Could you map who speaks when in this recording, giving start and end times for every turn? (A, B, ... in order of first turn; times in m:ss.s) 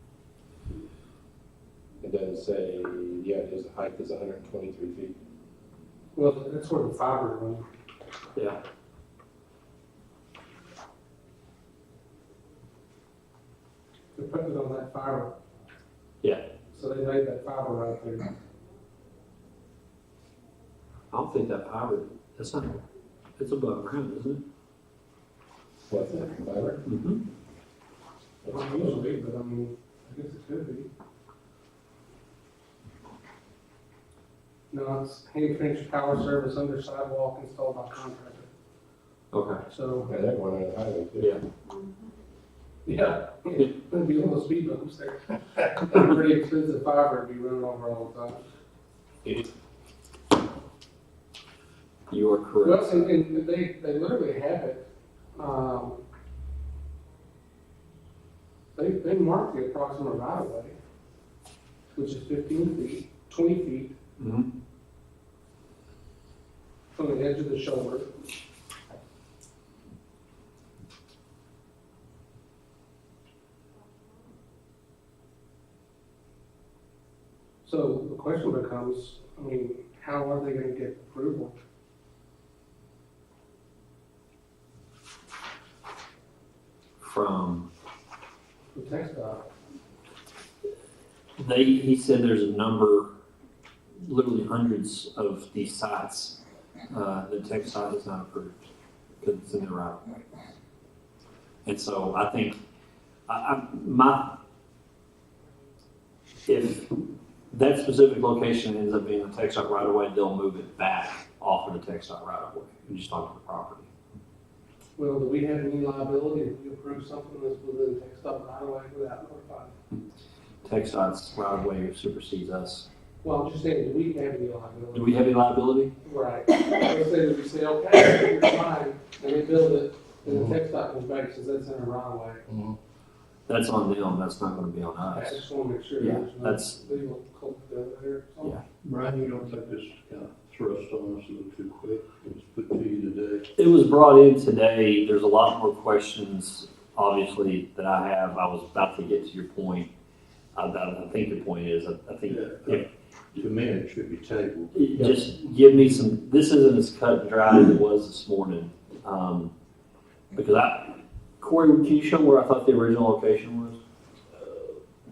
0:02.0-0:05.1 A
0:06.1-0:07.7 B
0:08.3-0:08.6 C
0:14.1-0:15.3 B
0:16.7-0:18.3 B
0:21.1-0:22.8 C
0:23.4-0:24.4 C
0:25.9-0:26.8 A
0:26.8-0:27.2 C
0:28.4-0:29.0 A
0:28.5-0:30.9 B
0:34.7-0:38.5 B
0:39.3-0:39.6 C
0:39.7-0:40.1 B
0:40.0-0:41.4 A
0:42.8-0:48.4 B
0:52.1-0:53.1 C
0:52.6-0:56.0 B
0:58.7-1:00.8 B
1:02.0-1:03.9 B
1:04.2-1:04.5 C
1:06.9-1:08.1 B
1:17.6-1:21.6 B
1:27.0-1:27.7 C
1:28.7-1:29.5 B
1:31.4-1:33.1 C
1:34.0-1:36.4 C
1:36.9-1:38.7 C
1:39.2-1:40.1 C
1:41.6-1:42.6 C
1:43.3-1:44.4 C
1:46.5-1:46.9 C
1:47.5-1:53.9 C
1:55.0-1:59.7 B
2:00.6-2:02.9 C
2:03.2-2:05.3 B
2:04.9-2:05.9 C
2:06.0-2:12.4 B
2:12.5-2:12.8 A
2:13.5-2:15.4 C
2:15.0-2:18.6 B
2:16.0-2:16.8 C
2:18.8-2:23.5 D
2:23.6-2:29.9 C
2:30.5-2:32.9 C
2:32.3-2:35.3 D
2:34.7-2:39.5 C
2:40.3-2:43.8 C